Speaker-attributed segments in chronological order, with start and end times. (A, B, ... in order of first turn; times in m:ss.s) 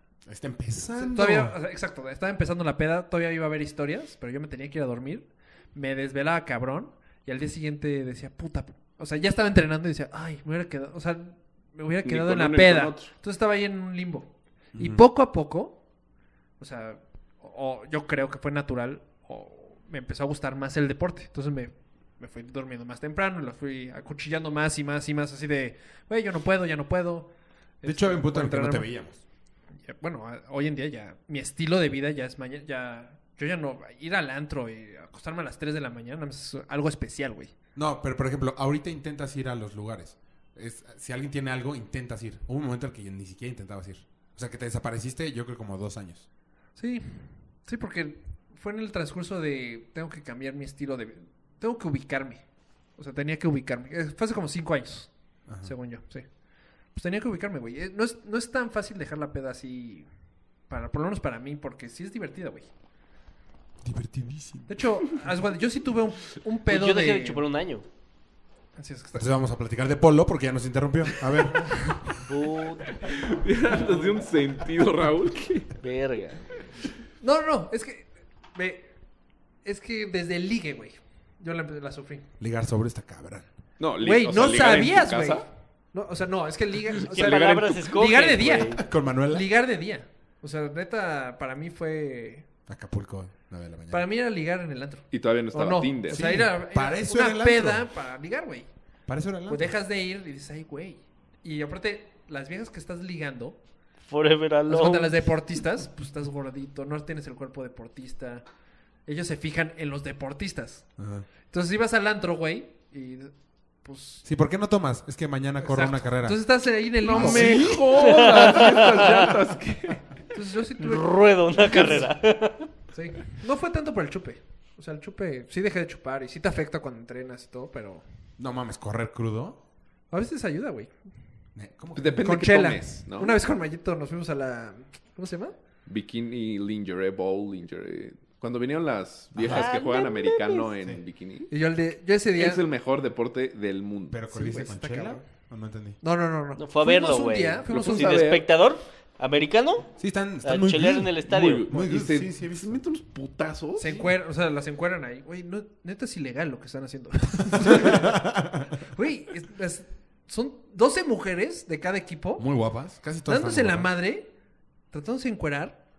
0:00.3-0:01.6 A
0:01.0-0:15.8 B
0:12.0-0:13.1 C
0:14.8-0:15.0 A
0:16.6-0:28.9 B
0:27.8-0:29.2 A
0:29.8-0:37.5 B
0:37.8-0:46.3 A
0:46.8-0:52.4 B
0:53.0-0:56.3 B
0:56.9-1:00.1 B
1:00.7-1:02.7 B
1:03.8-1:04.8 A
1:04.7-1:07.5 B
1:06.7-1:07.8 D
1:08.8-1:09.3 B
1:09.1-1:12.2 A
1:11.6-1:12.0 B
1:12.2-1:14.1 D
1:13.0-1:15.8 C
1:15.8-1:16.6 D
1:17.2-1:18.9 B
1:19.6-1:22.3 B
1:22.4-1:23.5 A
1:23.8-1:25.4 C
1:24.0-1:32.5 B
1:27.0-1:28.0 C
1:27.1-1:28.8 D
1:28.8-1:29.5 A
1:32.7-1:34.1 A
1:33.9-1:38.7 B
1:35.1-1:36.4 C
1:36.1-1:37.9 A
1:39.1-1:39.7 A
1:39.5-1:43.6 B
1:44.1-1:45.3 D
1:44.7-1:48.4 B
1:49.1-1:50.9 B
1:51.0-1:51.3 A
1:51.5-1:54.2 B
1:54.2-1:58.3 A
1:55.6-1:58.5 B
1:57.0-2:00.0 C
1:57.9-1:59.3 D
2:00.3-2:02.1 B
2:00.8-2:02.7 D
2:02.9-2:08.0 B
2:08.4-2:09.6 A
2:10.1-2:10.9 B
2:11.6-2:12.4 A
2:12.0-2:13.4 C
2:12.2-2:15.6 B
2:15.9-2:21.5 C
2:19.3-2:19.7 A
2:19.4-2:20.7 D
2:21.5-2:22.6 B
2:22.4-2:24.2 C
2:24.1-2:26.0 A
2:24.3-2:25.2 B
2:26.0-2:28.3 B
2:26.6-2:31.7 D
2:27.7-2:28.5 C
2:30.0-2:32.8 A
2:31.3-2:34.0 C
2:33.8-2:38.2 B
2:37.6-2:38.8 A
2:38.8-2:42.5 B
2:42.4-2:43.9 A
2:43.3-2:44.3 B
2:44.9-2:45.8 B